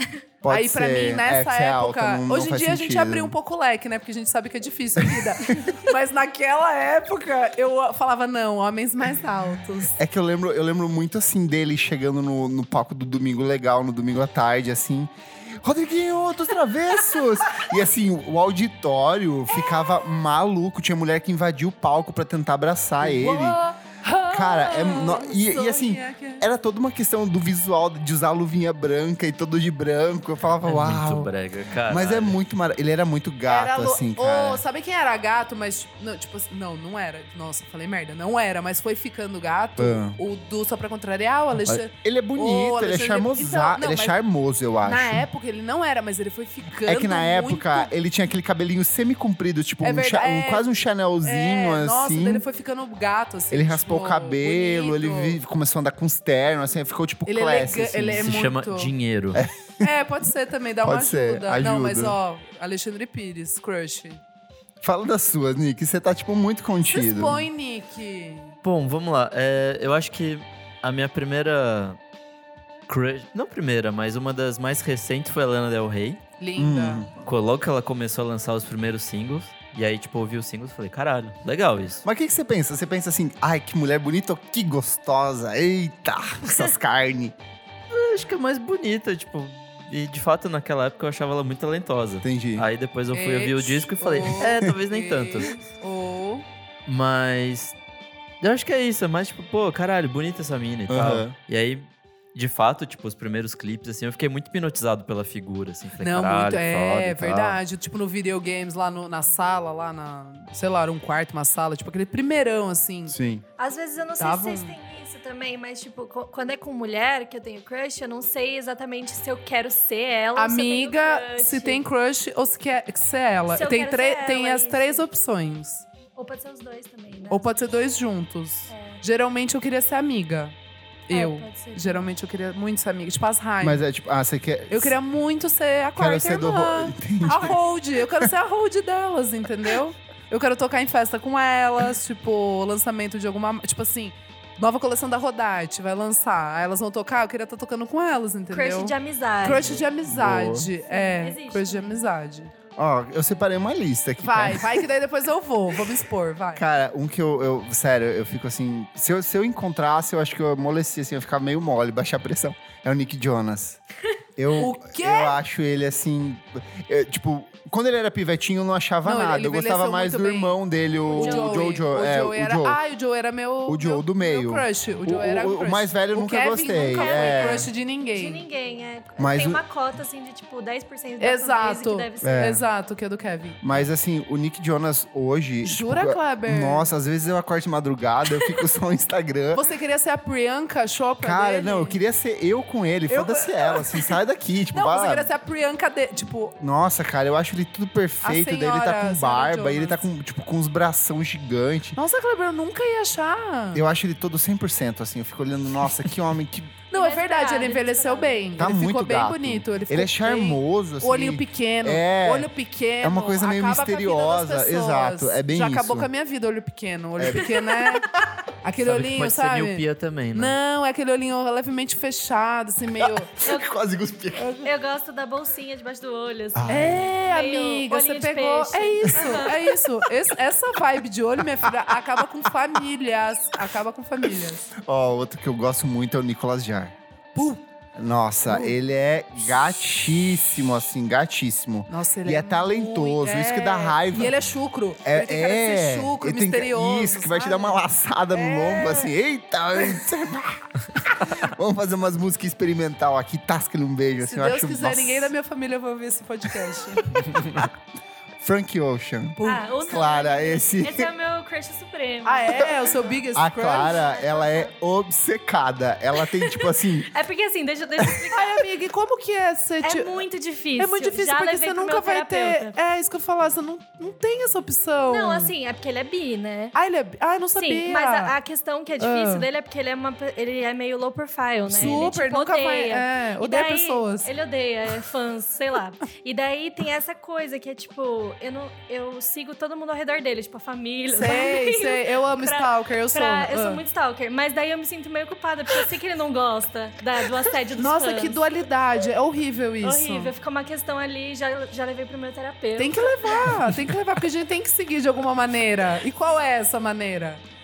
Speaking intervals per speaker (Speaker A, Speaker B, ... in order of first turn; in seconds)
Speaker A: 0.4-3.4, 5.0-5.7, 10.0-23.6, 24.3-31.3, 31.9-34.6, 39.8-40.2, 41.6-45.2, 46.8-52.4, 53.5-58.3, 59.3-59.9, 60.8-62.2, 64.8-67.4, 76.6-77.1, 82.0-87.3, 92.2-92.7, 100.9-101.3, 107.3-107.5, 113.1-113.4, 133.6-134.9, 135.9-137.6, 150.0-150.7, 152.8-154.9, 156.6-163.8, 164.4-172.8, 173.7-177.7, 179.2-179.6, 182.2-182.6, 183.6-189.6, 191.2-195.3, 196.6-202.0, 203.7-206.8, 208.6-212.5, 213.0-216.1, 217.2-217.6, 223.0-224.7, 226.5-227.1, 229.2-229.5, 231.7-231.9, 234.8-236.9, 237.9-244.3, 245.0-255.3, 257.3-257.6, 258.4-261.1, 263.3-267.1, 303.4-303.8
Speaker B: 0.5-10.0, 19.6-19.9, 23.0-26.4, 33.5-44.1, 44.8-47.9, 49.8-50.7, 51.2-55.4, 57.2-58.9, 59.8-64.2, 66.8-68.5, 76.4-77.0, 93.1-96.4, 106.0-113.1, 114.2-114.7, 120.3-125.8, 127.3-130.6, 131.1-133.8, 134.7-152.5, 154.2-156.6, 164.5-165.4, 169.0-170.5, 171.1-178.4, 181.2-183.9, 185.6-186.9, 189.5-192.0, 193.1-194.2, 194.7-196.6, 198.2-200.0, 201.9-203.8, 206.9-223.3, 226.7-234.7, 237.3-237.6, 238.5-238.8, 241.9-249.1, 254.2-257.3, 259.4-259.7, 262.2-264.1, 268.3-270.2, 270.8-275.5, 276.7-278.3, 279.0-279.5, 281.7-284.3, 291.1-293.8, 297.7-300.3, 302.8-307.4
Speaker C: 30.6-32.4, 58.1-59.4, 68.6-72.0, 72.9-76.2, 77.2-82.0, 87.9-95.6, 96.8-97.8, 98.4-107.5, 218.8-220.6, 281.7-282.0
Speaker D: 113.6-121.8, 123.5-125.0, 126.1-127.5, 128.7-129.0, 131.1-132.1, 148.5-149.8, 150.9-152.0, 171.1-171.7, 176.6-182.6, 206.9-208.6, 223.4-223.7, 224.6-229.7, 259.4-262.7, 263.8-264.7, 266.4-268.6, 269.8-272.7, 275.1-276.7, 277.6-298.4, 299.8-303.5